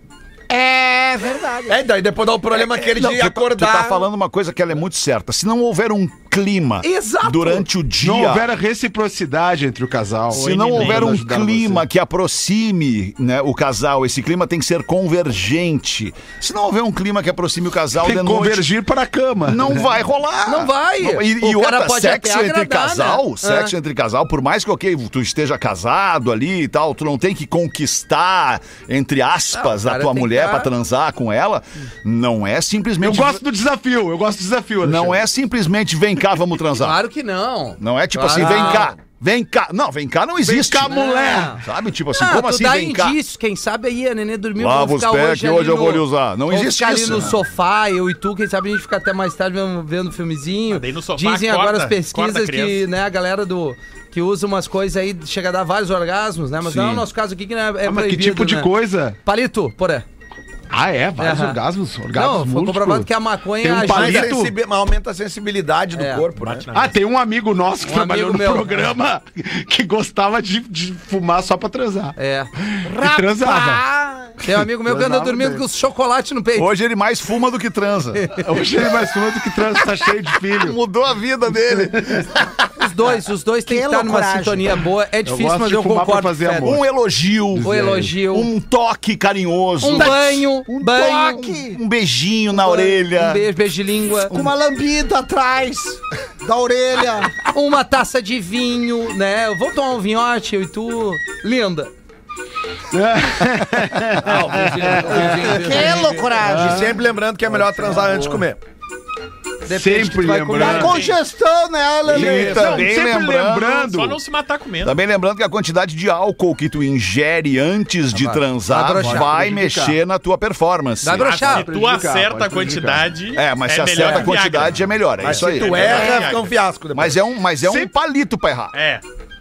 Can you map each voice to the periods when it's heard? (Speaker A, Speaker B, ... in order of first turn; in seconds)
Speaker A: 0.5-1.8, 72.8-74.4, 83.7-84.7, 90.8-91.8, 94.3-97.4, 105.4-107.0, 110.5-112.9
Speaker B: 1.7-4.0, 63.8-66.7, 104.2-105.5, 106.5-108.6, 125.2-127.2
Speaker C: 2.5-8.5, 10.3-18.7, 19.4-33.4, 34.8-37.0, 37.8-41.0, 41.6-43.1, 44.6-47.4, 76.5-78.3, 80.5-82.3, 86.6-93.5, 112.1-114.0, 114.8-121.5, 123.3-126.0, 126.9-128.7
Speaker D: 6.8-7.7, 20.4-23.7, 29.5-30.7, 36.8-38.9, 40.9-41.6, 42.1-58.7, 59.2-60.0, 61.2-64.3, 65.9-66.2, 67.8-68.7, 72.2-72.5, 74.4-76.7, 78.2-78.5, 82.8-86.8, 87.6-88.5, 89.8-91.4, 92.5-94.3, 97.5-101.9, 104.2-106.4, 109.6-111.0, 118.1-119.3, 121.0-121.7, 124.0-124.2
Speaker E: 8.0-11.8, 18.0-19.8, 33.0-35.2, 38.4-38.8, 40.4-41.6, 56.6-57.0, 57.8-59.2, 60.7-64.5, 66.7-72.1, 72.7-73.8, 74.7-75.6, 78.3-80.8, 81.7-82.3, 85.2-86.8, 87.5-88.2, 102.9-105.6, 106.4-106.9, 107.5-108.4, 109.7-111.0, 112.0-114.2, 119.0-120.0, 121.4-123.1, 127.6-127.9
Speaker F: 10.7-11.0, 50.7-52.8, 66.4-67.0, 110.7-111.2, 113.8-115.0, 121.2-126.4, 128.7-129.0